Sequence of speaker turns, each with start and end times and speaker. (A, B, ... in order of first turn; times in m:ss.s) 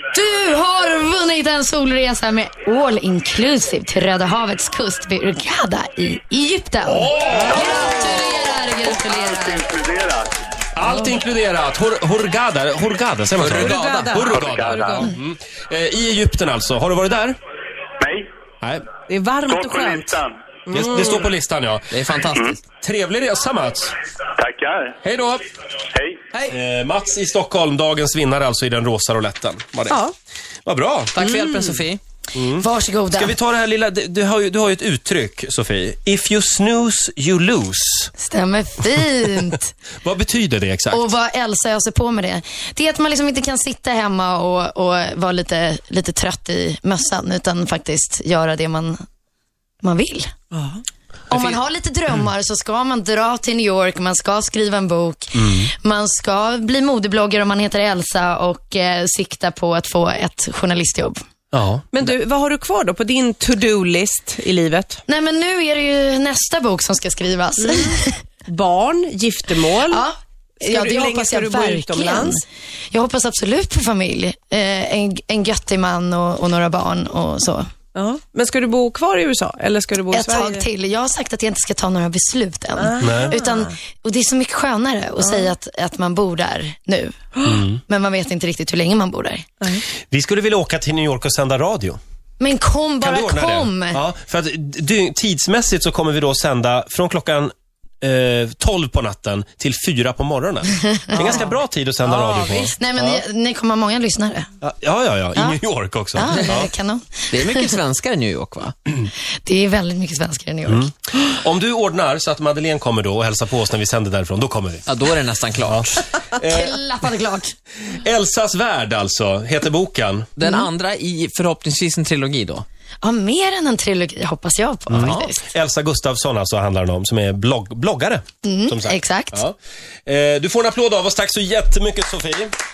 0:00.1-0:09.7 A
0:06.8-0:07.6 B
0:07.4-0:08.2 C
0:08.9-0:10.3 C
0:10.7-0:17.4 B
0:13.4-0:14.2 D
0:13.4-0:15.1 E
0:14.3-0:15.1 C
0:18.0-0:18.3 C
0:19.1-0:21.3 E
0:19.4-0:20.3 C
0:20.7-0:21.9 B
0:21.9-0:22.6 D
0:22.7-0:23.9 B
0:24.4-0:24.9 C
0:25.0-0:25.4 B
0:26.5-0:30.0 B
0:29.9-0:30.1 E
0:30.6-0:31.8 B
0:31.1-0:32.0 D
0:32.3-0:38.1 B
0:32.6-0:33.3 A
0:38.2-0:39.7 A
0:40.0-0:41.1 B
0:40.9-0:49.0 A
0:49.8-0:50.3 A
0:50.5-0:50.8 E
0:51.3-1:01.2 A
0:55.4-0:55.7 B
1:01.5-1:02.0 B
1:01.9-1:05.0 E
1:05.1-1:08.2 A
1:07.6-1:10.0 E
1:09.8-1:17.7 A
1:10.6-1:12.4 E
1:17.9-1:20.6 E
1:20.1-1:27.2 A
1:22.8-1:23.7 E
1:23.0-1:23.4 B
1:25.2-1:25.5 E
1:27.4-1:27.8 B
1:27.7-1:29.5 A
1:30.1-1:32.0 B
1:32.4-1:34.0 A
1:33.0-1:43.2 B
1:41.0-1:41.5 A
1:42.1-1:42.6 E
1:42.6-1:44.5 A
1:44.6-1:46.7 B
1:46.1-1:47.7 A
1:47.3-1:48.7 D
1:49.4-1:50.9 A
1:50.7-1:54.9 B
1:54.9-1:56.0 D
1:55.6-1:56.8 B
1:56.5-1:57.5 A
1:58.0-2:00.3 B
2:00.4-2:02.6 D
2:03.0-2:05.4 A
2:04.9-2:12.5 B
2:08.4-2:09.4 A